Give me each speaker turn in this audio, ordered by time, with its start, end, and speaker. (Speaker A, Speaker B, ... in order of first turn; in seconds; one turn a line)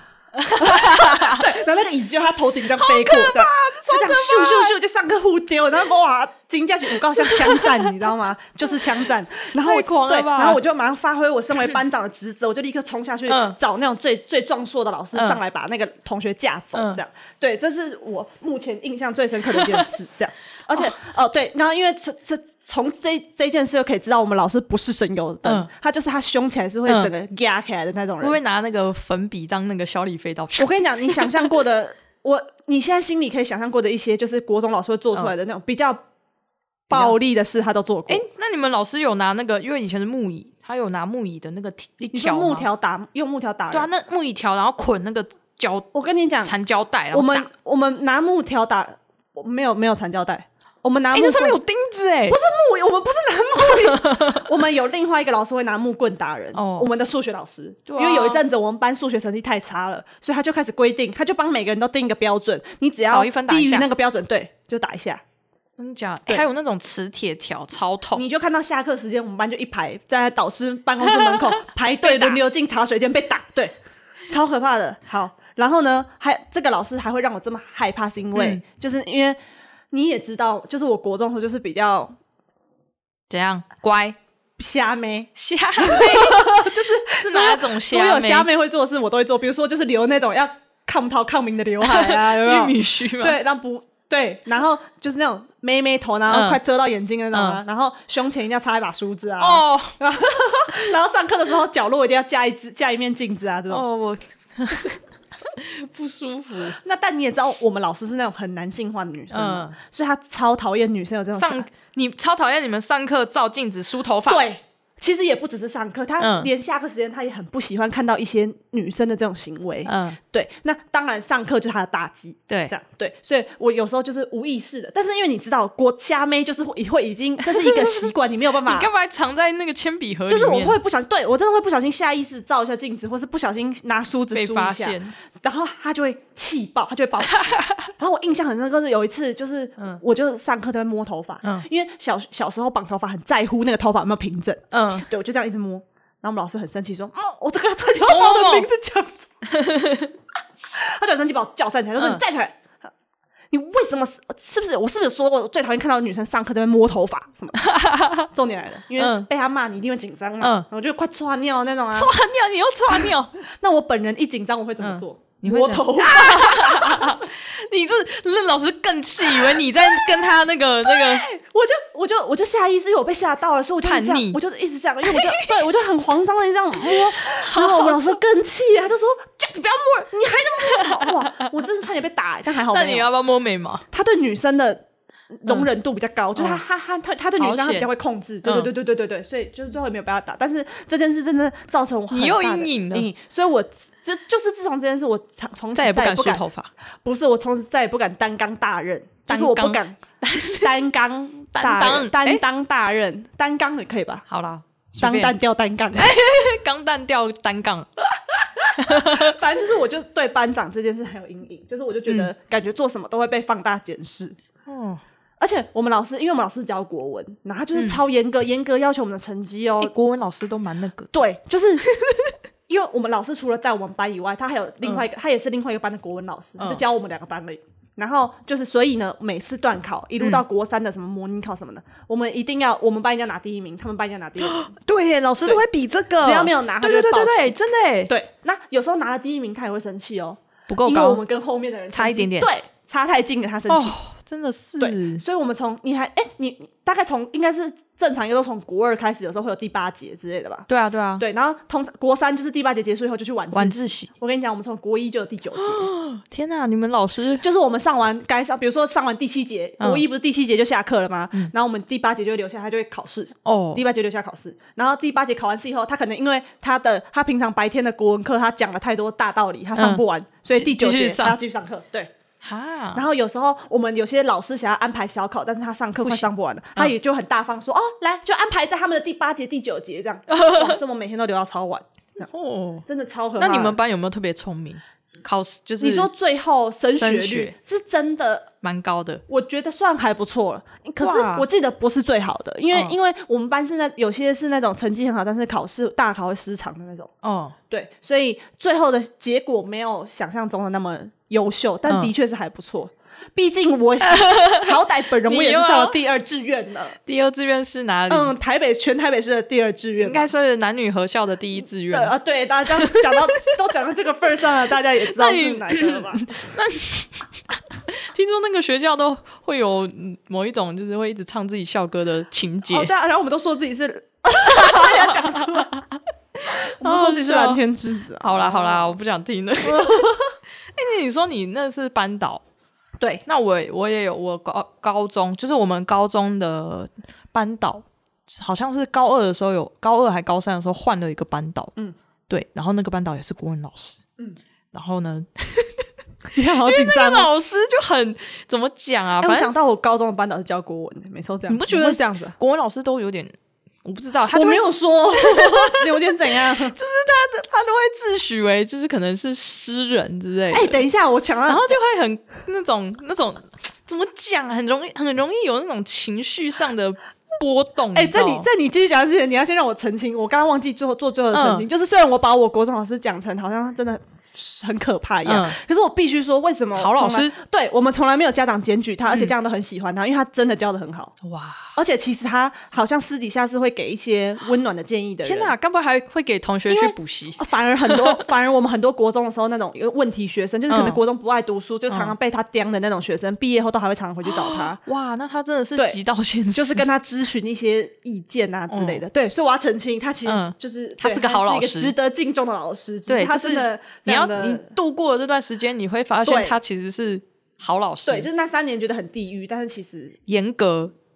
Speaker A: 0.3-1.5
Speaker B: 0.5-28.4
Speaker A: 2.8-4.7
Speaker A: 7.2-7.8
Speaker A: 9.6-10.6
Speaker A: 13.3-13.6
Speaker A: 15.1-15.4
Speaker A: 16.7-17.0
Speaker A: 19.5-19.9
Speaker A: 26.9-27.1
Speaker A: 28.2-31.5
Speaker B: 30.5-36.0
Speaker B: 36.9-38.2
Speaker A: 36.9-37.1
Speaker A: 38.1-42.7
Speaker B: 42.1-43.9
Speaker A: 43.7-45.9
Speaker B: 45.9-46.5
Speaker A: 46.4-47.5
Speaker B: 47.1-51.6
Speaker A: 51.1-52.4
Speaker B: 52.3-65.2
Speaker A: 53.6-54.5
Speaker A: 56.5-56.9
Speaker A: 57.9-58.4
Speaker A: 63.0-63.9
Speaker A: 65.8-68.2
Speaker B: 68.1-73.7
Speaker A: 71.0-71.4
Speaker A: 72.0-72.4
Speaker B: 74.3-79.4
Speaker A: 78.3-78.6
Speaker B: 79.9-82.1
Speaker A: 83.3-84.2
Speaker B: 84.6-103.8
Speaker A: 85.3-88.5
Speaker A: 91.8-93.4
Speaker A: 96.3-96.6
Speaker A: 97.3-97.6
Speaker A: 99.4-100.0
Speaker A: 103.7-106.8
Speaker B: 106.8-111.7
Speaker A: 109.3-109.8
Speaker A: 111.3-114.4
Speaker B: 114.3-128.9
Speaker A: 116.2-116.5
Speaker A: 119.8-120.2
Speaker A: 122.5-122.7
Speaker A: 127.5-130.8
Speaker B: 130.3-149.2
Speaker A: 134.3-135.1
Speaker A: 137.3-137.9
Speaker A: 144.7-145.1
Speaker A: 148.0-148.7
Speaker A: 149.4-150.1
Speaker B: 150.7-152.6
Speaker B: 153.5-157.7
Speaker A: 157.6-158.3
Speaker B: 158.3-162.1
Speaker A: 159.0-159.3
Speaker A: 160.4-160.7
Speaker A: 161.9-163.3
Speaker B: 163.0-167.2
Speaker A: 164.8-171.2
Speaker B: 170.8-183.1
Speaker A: 173.8-174.4
Speaker A: 175.0-175.4
Speaker A: 176.9-178.2
Speaker A: 181.0-181.3
Speaker A: 182.7-183.8
Speaker B: 183.9-196.4
Speaker A: 186.3-186.6
Speaker A: 187.4-187.9
Speaker A: 188.4-188.7
Speaker A: 192.1-193.1
Speaker A: 195.7-196.7
Speaker B: 197.0-200.0
Speaker A: 199.3-200.7
Speaker B: 200.6-204.2
Speaker A: 201.5-202.4
Speaker A: 204.3-205.3
Speaker B: 205.0-206.1
Speaker A: 205.9-207.9
Speaker B: 208.6-214.3
Speaker A: 208.8-209.4
Speaker A: 212.1-212.3
Speaker A: 214.7-215.0
Speaker B: 215.4-219.9
Speaker A: 217.7-218.0
Speaker A: 219.8-221.1
Speaker B: 221.1-221.8
Speaker A: 221.9-222.3
Speaker B: 222.7-234.7
Speaker A: 234.4-238.1
Speaker B: 236.2-237.6
Speaker B: 238.1-244.0
Speaker A: 240.7-241.2
Speaker A: 241.9-242.5
Speaker A: 243.7-245.2
Speaker B: 244.8-250.7
Speaker A: 250.7-251.2
Speaker B: 251.2-255.9
Speaker A: 253.5-254.1
Speaker A: 255.5-257.4
Speaker B: 257.4-272.1
Speaker A: 263.4-263.8
Speaker A: 269.8-270.0
Speaker A: 270.5-271.4
Speaker A: 272.4-273.0
Speaker B: 272.9-282.3
Speaker A: 276.0-276.9
Speaker A: 280.3-280.8
Speaker A: 282.2-282.8
Speaker B: 282.9-283.8
Speaker A: 283.4-286.1
Speaker B: 285.8-288.5
Speaker A: 286.9-287.5
Speaker A: 288.6-289.2
Speaker B: 289.3-297.1
Speaker A: 291.0-291.5
Speaker A: 297.2-297.6
Speaker B: 297.7-307.0
Speaker A: 301.9-302.1
Speaker A: 304.1-306.0
Speaker A: 307.1-308.3
Speaker B: 308.1-310.3
Speaker A: 310.0-312.1
Speaker B: 311.9-316.4
Speaker A: 312.8-313.3
Speaker A: 315.1-322.9
Speaker B: 322.7-325.8
Speaker A: 324.4-327.6
Speaker B: 326.5-328.9
Speaker A: 328.2-330.2
Speaker B: 329.6-330.3
Speaker A: 330.7-332.4
Speaker A: 333.2-341.7
Speaker A: 342.3-344.0
Speaker A: 344.7-345.9
Speaker B: 346.3-347.3
Speaker A: 346.4-349.5
Speaker B: 349.2-352.4
Speaker A: 351.5-353.3
Speaker A: 353.8-360.8
Speaker B: 354.3-356.8
Speaker B: 360.5-361.8
Speaker A: 361.5-368.5
Speaker B: 367.9-381.1
Speaker A: 371.3-371.7
Speaker A: 375.2-375.6
Speaker A: 376.8-377.3
Speaker A: 379.1-379.3
Speaker A: 381.2-381.7
Speaker B: 381.7-385.5
Speaker A: 385.2-388.2
Speaker B: 386.7-394.8
Speaker A: 390.7-391.0
Speaker A: 391.9-392.1
Speaker A: 394.2-396.9
Speaker B: 396.5-404.7
Speaker A: 398.7-399.0
Speaker A: 400.2-401.9
Speaker A: 403.1-408.3
Speaker B: 406.2-406.6
Speaker B: 408.0-410.2
Speaker A: 410.3-410.9